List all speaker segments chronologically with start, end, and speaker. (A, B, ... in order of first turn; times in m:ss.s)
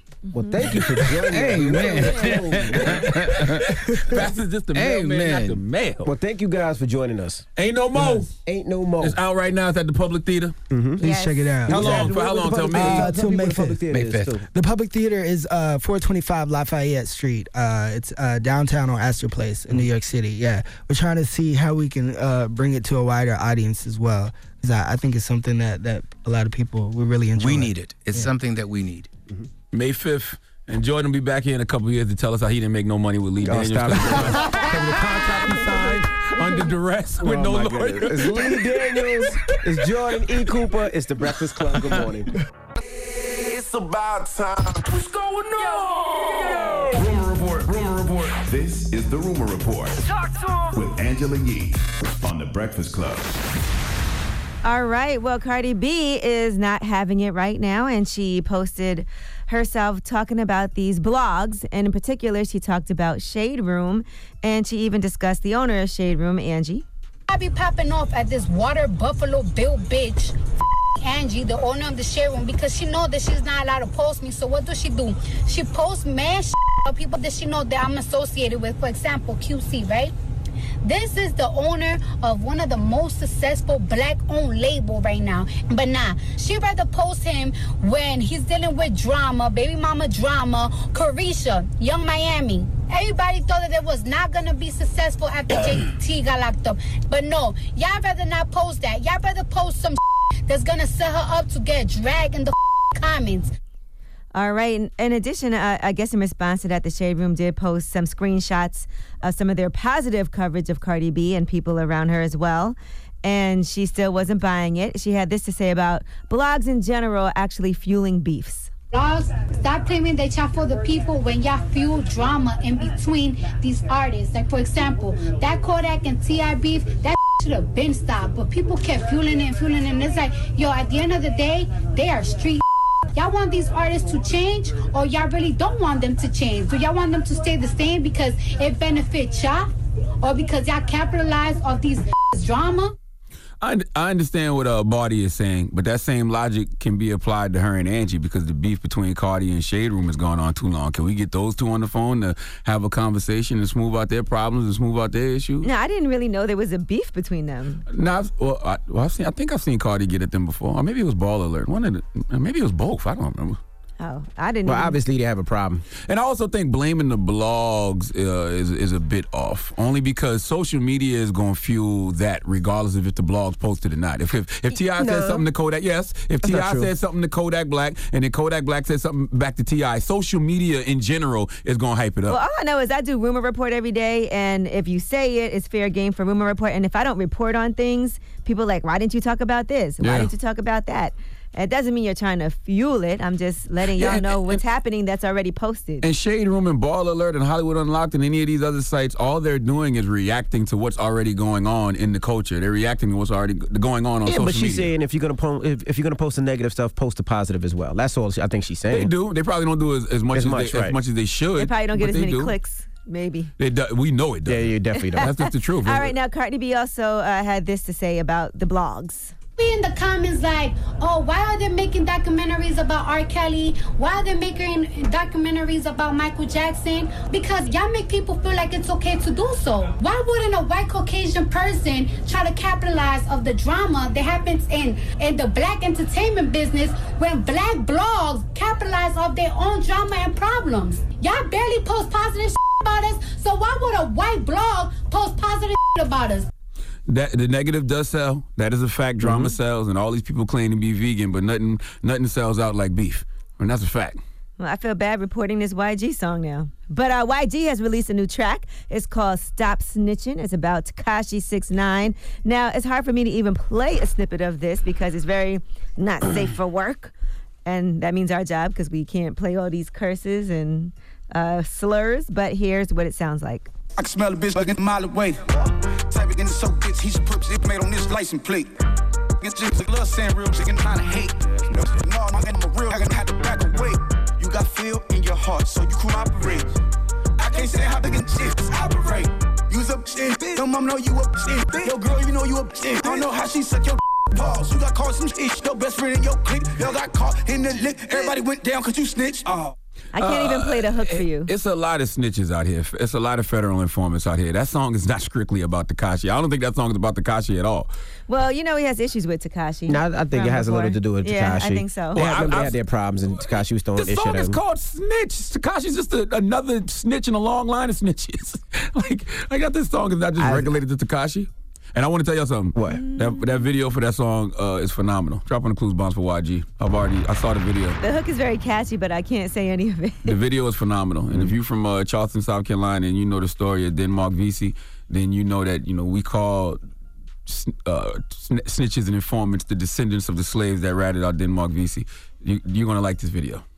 0:00.3-0:00.8 A
0:00.3-0:02.9 B
0:00.8-0:01.1 C
0:01.3-0:03.6 D
0:01.9-0:02.4 A
0:02.7-0:06.1 C
0:04.7-0:05.6 D
0:06.0-0:07.4 B
0:07.6-0:08.3 C
0:08.1-0:09.2 B
0:09.0-0:10.5 C
0:10.7-0:11.0 B
0:11.0-0:12.2 E
0:11.0-0:11.5 A
0:11.7-0:14.5 B
0:11.7-0:13.2 C
0:12.7-0:13.8 E
0:13.9-0:14.4 D
0:14.5-0:28.3 E
0:27.4-0:29.1 D
0:29.7-0:38.7 C
0:33.4-0:34.7 B
0:37.2-0:42.3 B
0:43.7-0:44.2 F
0:44.7-0:45.3 F
0:46.8-0:50.0 F
0:50.7-0:53.4 F
0:54.6-1:06.8 A
1:07.3-1:10.4 G
1:11.0-1:20.1 G
1:20.8-1:43.5 G
1:44.3-1:58.7 A
1:58.9-2:12.6 G
2:13.1-2:19.7 G
2:20.2-2:23.0 G
2:23.6-2:35.7 C
2:35.6-2:37.8 A
2:37.9-2:43.6 C
2:44.0-2:45.0 A
2:44.6-2:45.8 B
2:46.1-3:02.4 C
2:55.0-2:55.4 B
2:56.4-2:56.9 B
3:02.3-3:16.1 A
3:10.0-3:10.3 C
3:14.0-3:14.6 C
3:16.0-3:24.9 C
3:24.3-3:29.1 B
3:28.9-3:32.6 C
3:30.3-3:31.0 B
3:31.6-3:33.5 A
3:33.6-3:36.1 C
3:34.5-3:35.3 B
3:35.2-3:39.3 A
3:39.6-4:06.5 G
4:07.1-4:14.2 C
4:09.2-4:09.6 B
4:14.6-4:27.1 A
4:27.6-4:33.7 A
4:34.0-4:38.7 H
4:39.4-4:46.7 H
4:47.4-4:59.7 H
5:00.1-5:01.5 A
5:00.2-5:07.9 C
5:08.3-5:12.3 A
5:09.9-5:14.6 B
5:12.2-5:28.0 C
5:20.4-5:20.8 B
5:22.8-5:23.0 B
5:22.9-5:23.4 A
5:28.0-5:30.4 A
5:30.2-5:36.8 C
5:37.5-5:43.6 C